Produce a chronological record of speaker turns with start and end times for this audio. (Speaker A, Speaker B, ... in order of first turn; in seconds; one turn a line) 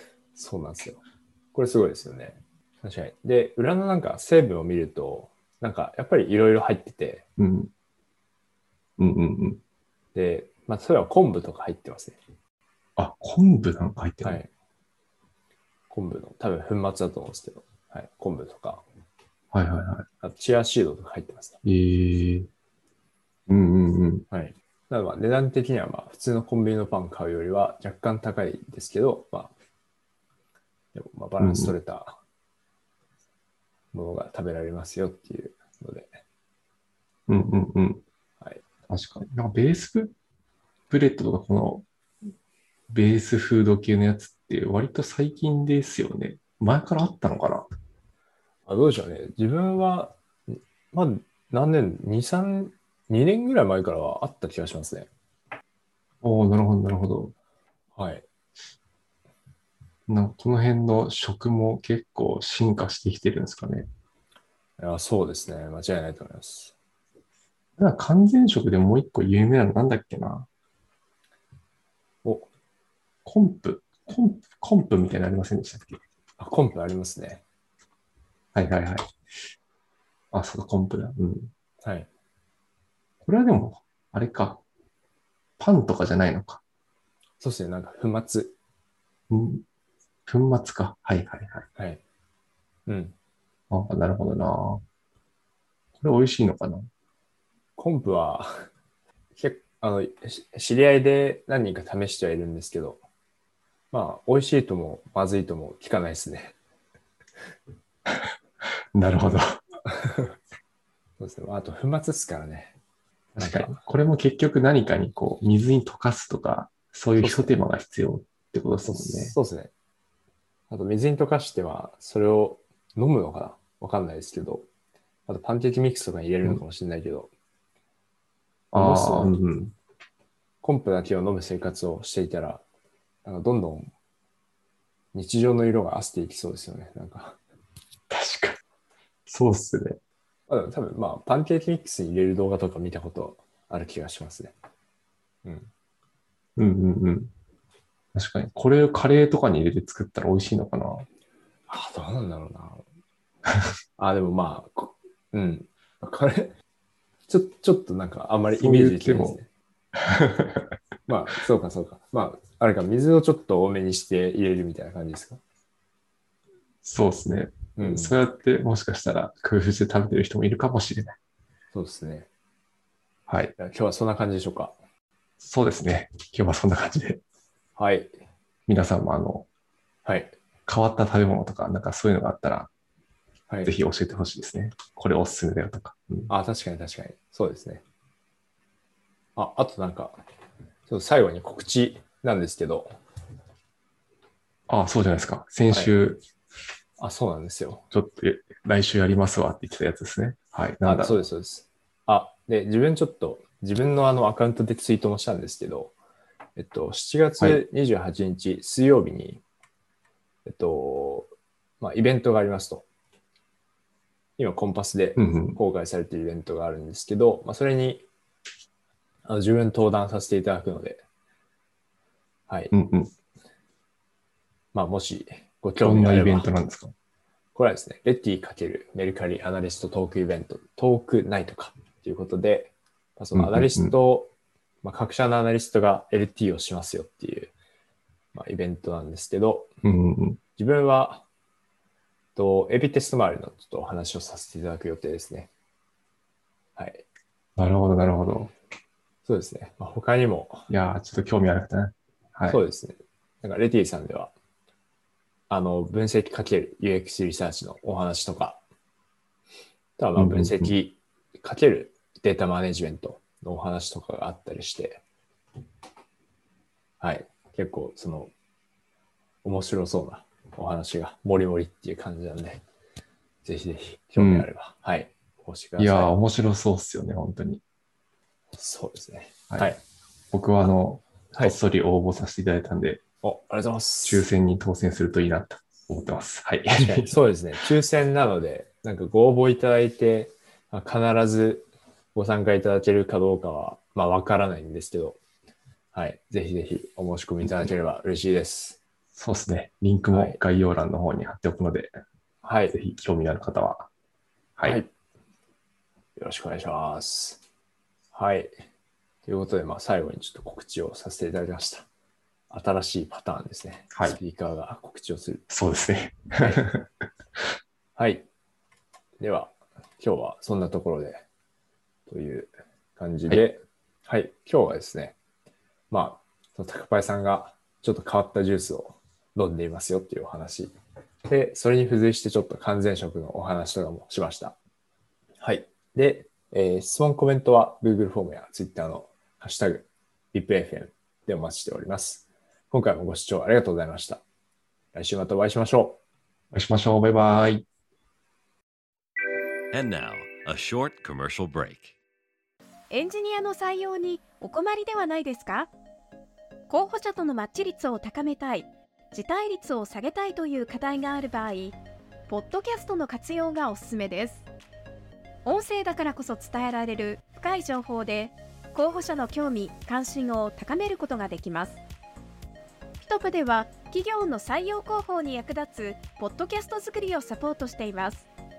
Speaker A: 0.3-1.0
Speaker A: 1.5-7.2
Speaker B: 7.4-7.7
Speaker B: 9.0-9.6
Speaker A: 10.1-12.2
Speaker B: 13.0-14.4
Speaker A: 14.2-14.5
Speaker A: 15.9-18.8
Speaker B: 19.5-20.1
Speaker A: 20.2-21.6
Speaker B: 21.6-22.5
Speaker B: 23.5-24.2
Speaker A: 24.3-29.5
Speaker A: 30.9-32.2
Speaker B: 31.4-31.7
Speaker A: 33.9-36.1
Speaker B: 37.3-38.0
Speaker B: 38.9-40.1
Speaker B: 40.9-41.9
Speaker B: 42.9-47.7
Speaker A: 48.6-55.1
Speaker B: 56.2-57.3
Speaker A: 58.0-58.2
Speaker B: 60.1-63.9
Speaker A: 64.8-66.7
Speaker B: 67.8-70.5
Speaker B: 73.2-76.0
Speaker A: 76.4-77.4
Speaker B: 78.5-79.1
Speaker B: 80.3-81.5
Speaker A: 81.8-82.1
Speaker B: 83.2-84.6
Speaker B: 85.6-86.6
Speaker A: 87.4-88.5
Speaker B: 89.3-89.6
Speaker B: 90.3-91.7
Speaker A: 91.8-92.0
Speaker A: 92.9-93.1
Speaker B: 93.7-94.8
Speaker B: 96.0-96.9
Speaker A: 97.8-98.7
Speaker A: 99.4-103.0
Speaker A: 103.9-106.5
Speaker B: 108.9-109.6
Speaker A: 109.9-110.3
Speaker A: 111.2-112.8
Speaker B: 113.3-119.3
Speaker A: 113.4-113.8
Speaker A: 117.2-117.5
Speaker A: 118.8-119.7
Speaker A: 120.7-124.7
Speaker A: 125.3-127.3
Speaker B: 128.7-129.7
Speaker A: 128.7-129.4
Speaker A: 130.6-132.6
Speaker A: 133.2-133.9
Speaker A: 135.1-137.4
Speaker B: 138.1-138.6
Speaker B: 139.3-140.0
Speaker A: 140.5-144.5
Speaker B: 146.6-147.3
Speaker B: 148.1-151.1
Speaker A: 151.7-152.8
Speaker A: 154.0-156.5
Speaker A: 157.3-159.5
Speaker B: 158.6-159.4
Speaker B: 159.9-160.8
Speaker A: 161.1-165.4
Speaker B: 166.8-171.1
Speaker A: 167.8-168.2
Speaker A: 171.7-172.3
Speaker B: 173.3-173.5
Speaker A: 173.6-174.8
Speaker B: 175.4-177.2
Speaker A: 177.8-178.1
Speaker B: 178.7-179.5
Speaker A: 180.1-180.3
Speaker B: 180.7-182.7
Speaker B: 183.6-186.3
Speaker A: 186.3-187.8
Speaker A: 189.4-190.2
Speaker A: 190.9-193.0
Speaker B: 194.7-196.2
Speaker A: 195.7-196.0
Speaker A: 197.0-197.8
Speaker B: 197.9-201.3
Speaker A: 200.8-205.9
Speaker A: 206.6-209.4
Speaker A: 210.4-212.8
Speaker A: 214.4-218.1
Speaker B: 215.2-215.6
Speaker A: 219.2-221.0
Speaker A: 222.5-222.7
Speaker B: 222.7-223.1
Speaker A: 224.7-226.5
Speaker B: 225.8-226.9
Speaker A: 227.6-234.3
Speaker B: 233.3-233.9
Speaker A: 234.8-237.5
Speaker A: 238.3-239.7
Speaker B: 239.8-240.4
Speaker A: 240.6-241.2
Speaker A: 242.4-245.5
Speaker A: 246.8-247.1
Speaker B: 247.6-248.5
Speaker A: 249.3-250.7
Speaker B: 250.7-252.6
Speaker A: 252.5-254.3
Speaker A: 255.5-258.6
Speaker A: 260.0-265.0
Speaker B: 260.1-260.7
Speaker A: 267.0-268.3
Speaker A: 269.4-272.6
Speaker A: 273.4-276.1
Speaker B: 274.2-274.5
Speaker B: 275.8-277.6
Speaker A: 278.5-279.8
Speaker B: 280.3-283.0
Speaker A: 283.2-284.3
Speaker B: 284.1-287.1
Speaker A: 286.7-295.2
Speaker A: 295.9-298.8
Speaker B: 299.1-302.0
Speaker A: 300.1-300.4
Speaker A: 302.4-302.8
Speaker B: 302.7-303.9
Speaker A: 304.6-304.9
Speaker A: 306.2-307.4
Speaker A: 308.1-308.5
Speaker A: 309.3-311.9
Speaker A: 312.5-315.4
Speaker B: 313.9-314.2
Speaker B: 315.5-316.9
Speaker A: 316.4-316.6
Speaker A: 318.0-318.3
Speaker A: 319.2-321.2
Speaker A: 322.1-325.1
Speaker A: 325.9-330.8
Speaker A: 331.3-334.6
Speaker A: 335.4-344.2
Speaker A: 344.9-346.0
Speaker B: 346.5-347.6
Speaker C: 349.7-351.9
Speaker D: 352.9-355.7
Speaker D: 356.7-361.8
Speaker D: 362.3-364.4
Speaker D: 365.4-371.8
Speaker D: 373.0-378.3